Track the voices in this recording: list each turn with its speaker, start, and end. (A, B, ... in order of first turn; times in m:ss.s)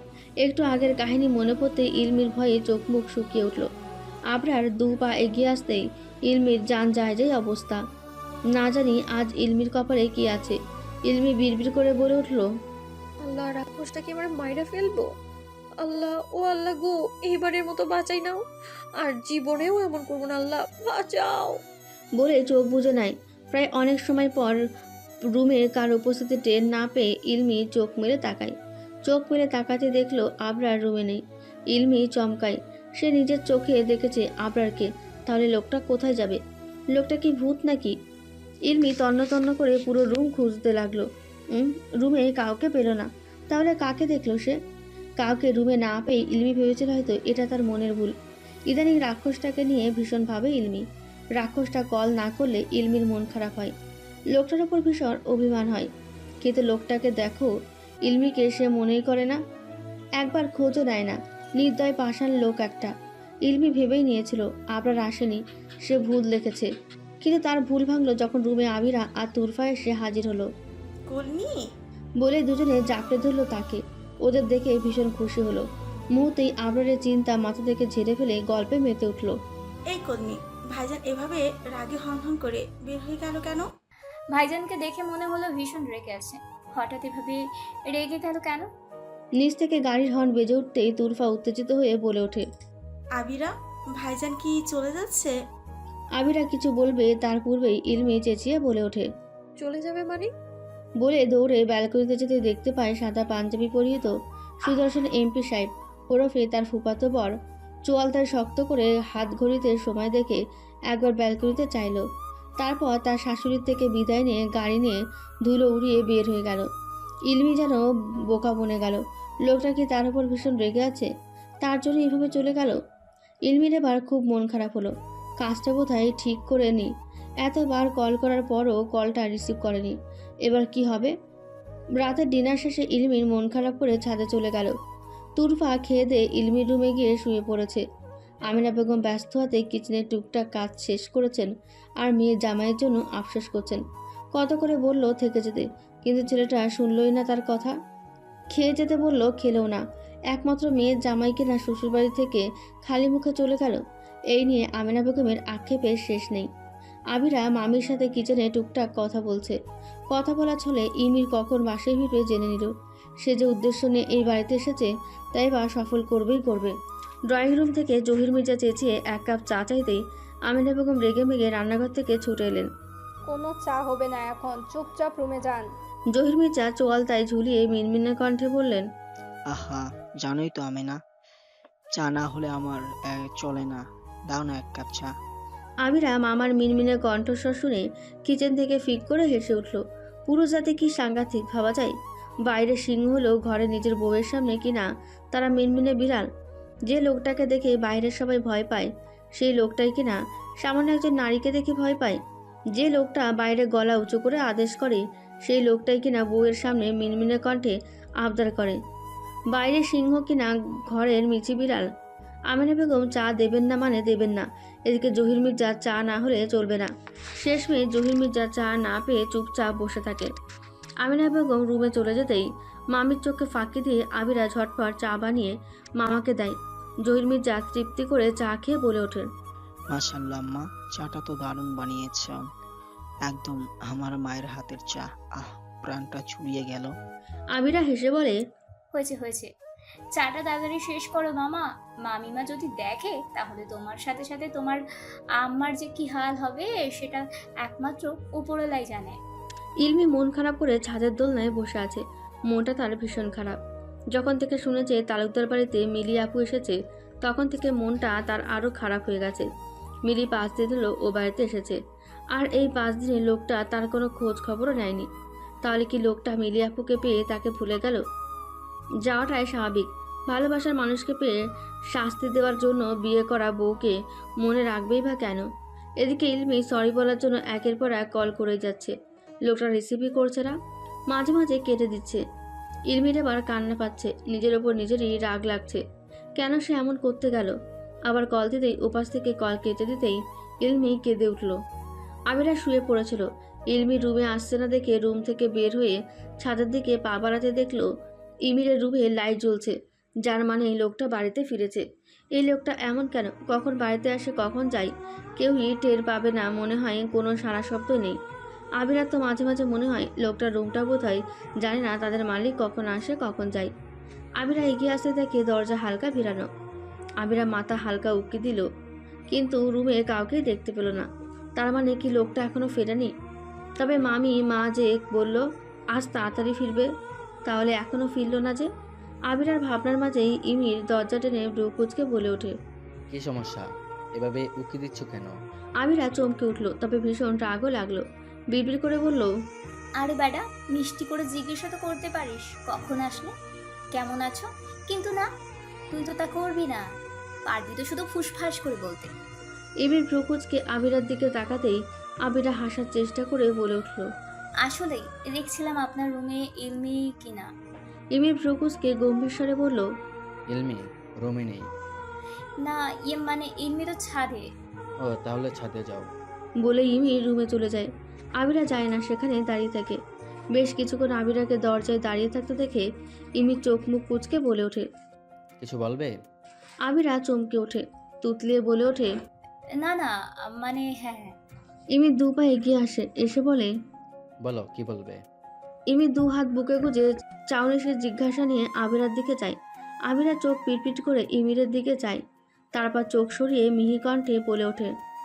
0:00.4-0:03.7 A
0:04.3-0:07.8 A
0:08.6-0:10.6 A
0:11.1-0:12.5 A
0:13.2-0:15.1 B
0:15.8-0:18.4 B
0:19.0-0:21.6 B
0:22.2-0:24.6 A
0:25.3-0:28.5 A
0:29.1-0:31.2 A
0:31.7-0:36.4 A
0:36.9-0:38.0 A
0:38.7-0:44.6 A
0:45.2-0:48.1 A
0:48.7-0:50.8 A
0:51.4-0:53.7 A
0:54.4-0:55.9 A
0:56.4-0:57.5 A
0:58.1-0:59.4 A
1:00.2-1:02.9 A
1:03.5-1:06.7 A
1:07.2-1:10.5 A
1:11.1-1:11.6 C
1:12.2-1:19.4 A
1:19.9-1:23.6 C
1:24.3-1:28.7 D
1:29.4-1:32.4 A
1:33.2-1:35.3 C
1:36.2-1:39.1 A
1:39.6-1:40.3 B
1:41.0-1:44.1 A
1:44.6-1:47.4 A
1:47.9-1:50.4 A
1:50.9-1:52.0 A
1:52.6-1:56.7 A
1:57.3-2:01.1 A
2:01.6-2:02.8 A
2:03.5-2:06.9 A
2:07.4-2:10.0 A
2:10.5-2:11.1 A
2:12.0-2:14.8 A
2:15.4-2:17.8 A
2:18.5-2:21.5 A
2:22.0-2:23.8 A
2:24.3-2:27.8 A
2:28.5-2:33.8 A
2:34.3-2:36.5 A
2:37.1-2:39.6 A
2:40.1-2:46.7 A
2:47.3-2:52.7 A
2:53.3-2:55.7 E
2:56.1-2:58.8 A
2:59.5-3:01.0 F
3:01.9-3:05.1 F
3:05.8-3:11.9 A
3:12.5-3:16.3 A
3:16.9-3:22.2 A
3:22.8-3:28.8 A
3:29.5-3:31.9 A
3:32.5-3:40.3 A
3:41.0-3:49.3 A
3:49.9-3:52.4 F
3:53.3-3:56.9 F
3:57.6-3:58.4 A
3:58.9-3:59.5 D
4:00.2-4:04.8 D
4:05.4-4:09.2 D
4:09.8-4:13.6 A
4:14.1-4:19.5 A
4:20.1-4:21.8 A
4:22.4-4:25.1 A
4:25.6-4:28.0 A
4:29.1-4:31.4 A
4:31.9-4:35.4 A
4:36.0-4:38.9 A
4:39.5-4:40.6 A
4:41.1-4:42.2 A
4:42.9-4:45.8 A
4:46.4-4:47.5 A
4:48.1-4:51.6 A
4:52.3-4:57.9 A
4:58.5-5:01.8 A
5:02.4-5:08.2 A
5:08.8-5:13.7 A
5:14.4-5:16.5 A
5:17.2-5:18.6 A
5:19.3-5:21.1 A
5:21.6-5:23.1 A
5:23.8-5:25.4 A
5:26.0-5:26.9 A
5:27.5-5:28.7 A
5:29.3-5:32.5 A
5:33.1-5:35.4 G
5:35.8-5:39.3 A
5:40.0-5:43.3 D
5:43.9-5:45.3 D
5:45.9-5:46.8 D
5:47.5-5:49.1 D
5:49.8-5:54.0 A
5:54.6-5:57.5 D
5:58.2-5:59.8 A
6:00.5-6:01.7 G
6:02.6-6:04.5 D
6:05.0-6:06.1 G
6:06.6-6:07.9 A
6:08.4-6:10.0 A
6:10.6-6:12.8 A
6:13.4-6:14.9 A
6:15.6-6:16.2 G
6:16.9-6:19.1 A
6:19.8-6:21.3 D
6:22.0-6:23.7 A
6:24.4-6:25.2 G
6:25.9-6:29.6 A
6:30.1-6:32.2 A
6:32.8-6:34.9 A